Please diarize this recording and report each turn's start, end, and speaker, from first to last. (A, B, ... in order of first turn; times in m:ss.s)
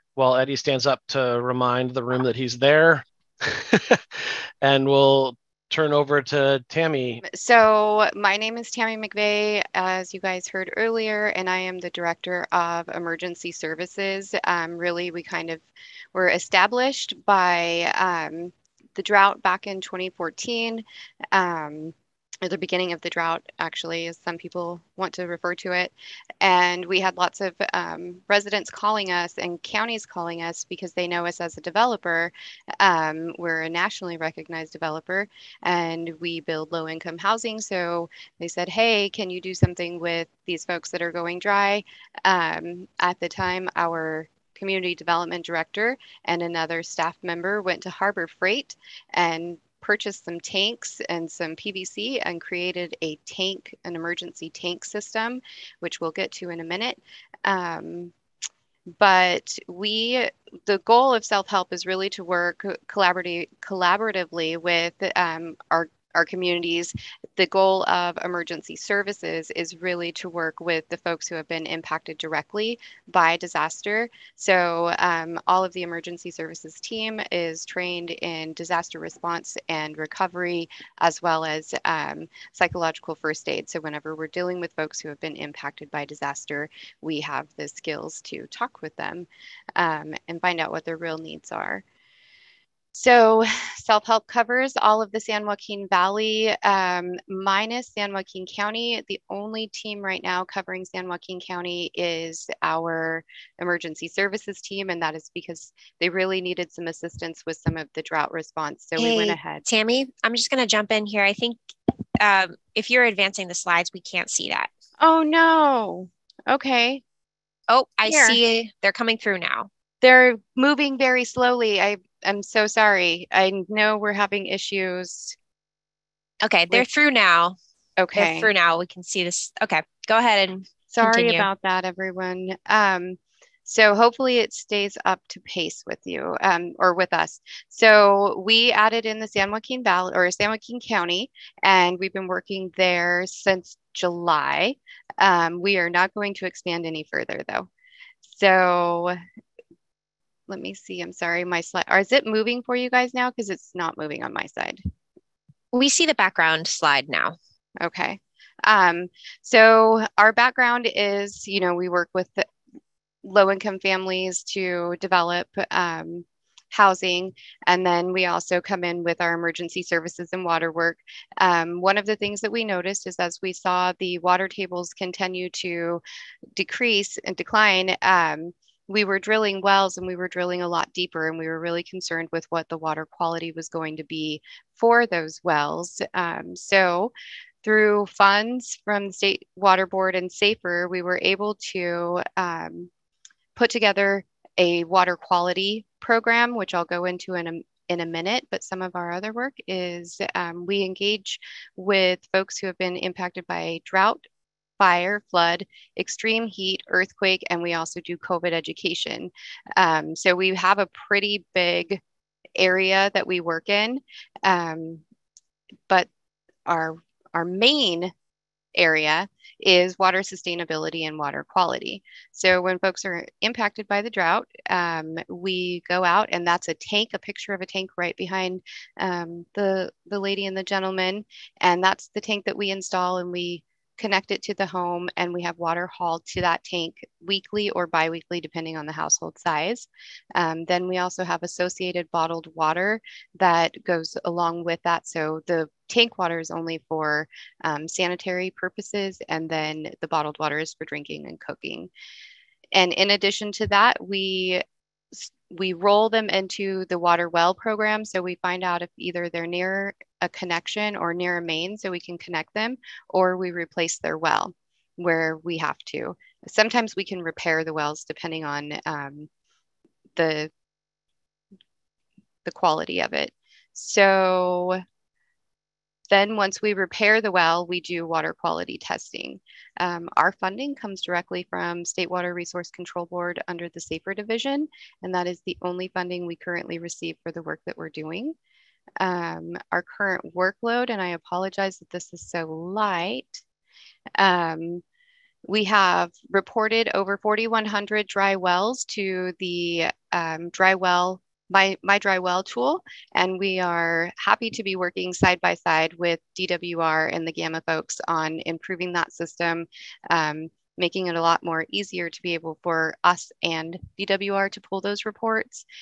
0:00.2-0:07.2 A
0:07.3-0:58.1 B
0:59.0-1:31.8 B
1:32.9-1:49.6 B
1:49.0-1:51.6 C
1:52.2-1:54.7 C
1:55.0-1:57.0 B
1:57.7-1:59.7 C
1:58.0-1:58.4 B
2:00.0-2:05.4 B
2:06.4-2:07.6 C
2:08.0-2:08.5 B
2:08.1-2:11.5 C
2:10.9-2:27.7 B
2:28.2-2:29.2 B
2:30.5-2:34.8 B
2:35.7-2:37.4 C
2:37.8-2:42.4 B
2:43.2-2:56.0 B
2:56.6-3:07.1 B
3:07.6-3:12.9 B
3:13.6-3:24.2 B
3:24.8-3:32.0 B
3:32.6-3:35.0 B
3:36.6-3:38.1 B
3:38.7-4:11.9 B
4:12.7-4:14.6 B
4:15.1-4:29.3 B
4:30.2-4:30.5 B
4:32.4-4:34.8 B
4:36.1-4:48.4 B
4:49.0-4:53.4 B
4:54.2-4:54.8 B
4:55.5-5:15.6 B